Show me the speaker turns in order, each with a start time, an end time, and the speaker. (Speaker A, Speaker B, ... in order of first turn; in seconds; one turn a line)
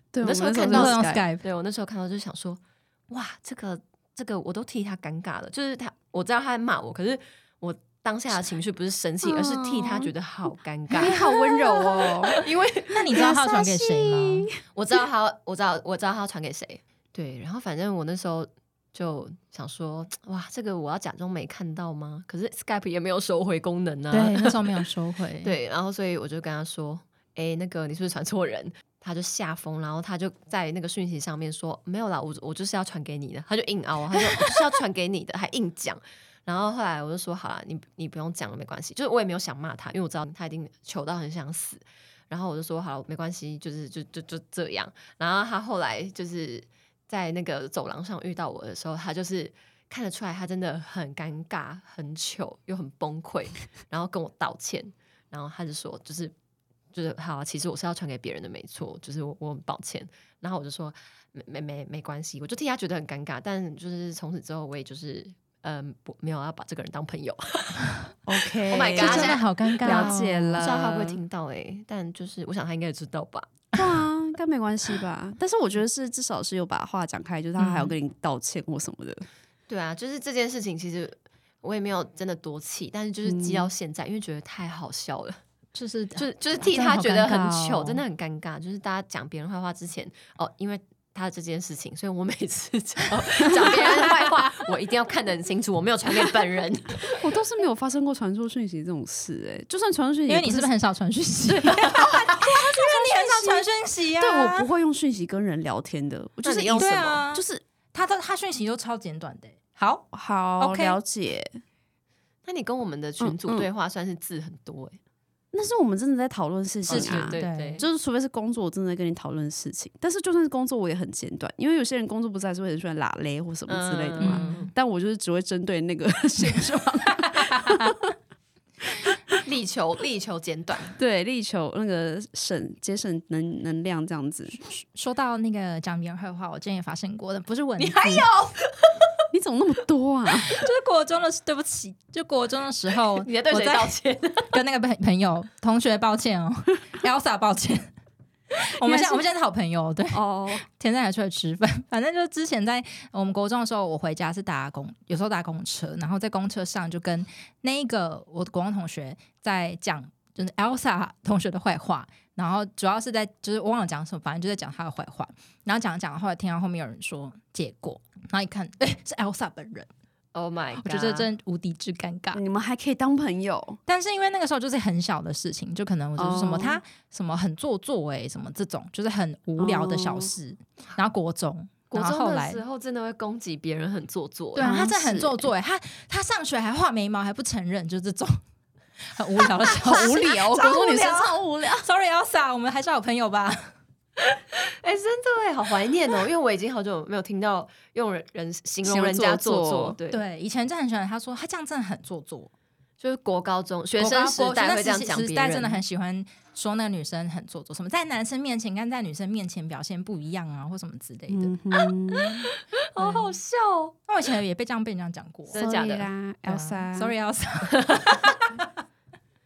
Speaker A: 0.1-1.3
Speaker B: 0.2-13.2
Speaker C: 0.7-1.4
Speaker A: 9.2-10.1
Speaker A: 11.0-12.4
Speaker C: 12.9-14.5
Speaker A: 13.1-14.6
Speaker B: 14.7-24.9
Speaker C: 24.1-25.6
Speaker B: 25.4-56.3
Speaker B: 56.9-67.9
Speaker A: 68.3-71.2
Speaker B: 68.7-73.5
Speaker C: 69.0-70.7
Speaker A: 73.8-79.2
Speaker C: 77.6-77.9
Speaker B: 79.7-85.4
Speaker A: 83.2-83.7
Speaker C: 85.8-88.0
Speaker B: 86.2-97.2
Speaker A: 97.2-100.7
Speaker C: 100.3-104.7
Speaker A: 101.5-101.8
Speaker B: 101.8-102.1
Speaker A: 102.4-107.6
Speaker B: 106.4-107.2
Speaker C: 106.8-110.0
Speaker A: 110.1-111.6
Speaker C: 110.6-111.0
Speaker B: 112.5-115.0
Speaker A: 113.2-113.7
Speaker A: 115.5-128.0
Speaker B: 116.9-117.9
Speaker C: 116.9-117.9
Speaker B: 123.7-124.7
Speaker C: 124.2-124.7
Speaker C: 127.6-127.9
Speaker B: 129.4-131.0
Speaker A: 131.0-134.6
Speaker C: 134.5-138.3
Speaker B: 137.8-139.0
Speaker A: 139.3-140.5
Speaker C: 140.4-143.9
Speaker B: 143.1-144.6
Speaker C: 144.5-147.9
Speaker C: 148.6-169.9
Speaker A: 148.8-149.3
Speaker A: 150.1-150.6
Speaker B: 170.3-171.3
Speaker C: 170.8-172.4
Speaker A: 172.3-173.8
Speaker C: 173.9-182.6
Speaker A: 176.2-176.8
Speaker A: 179.6-180.3
Speaker B: 181.9-184.8
Speaker C: 184.6-188.4
Speaker A: 184.6-185.4
Speaker C: 189.1-193.6
Speaker A: 189.8-191.9
Speaker B: 194.8-200.2
Speaker A: 198.8-200.0
Speaker C: 200.1-202.5
Speaker B: 203.0-205.8
Speaker C: 204.0-211.5
Speaker A: 211.3-212.5
Speaker B: 212.2-213.9
Speaker C: 213.0-213.4
Speaker C: 214.1-215.6
Speaker B: 215.5-216.1
Speaker A: 215.6-217.1
Speaker C: 216.5-218.7
Speaker B: 217.7-218.1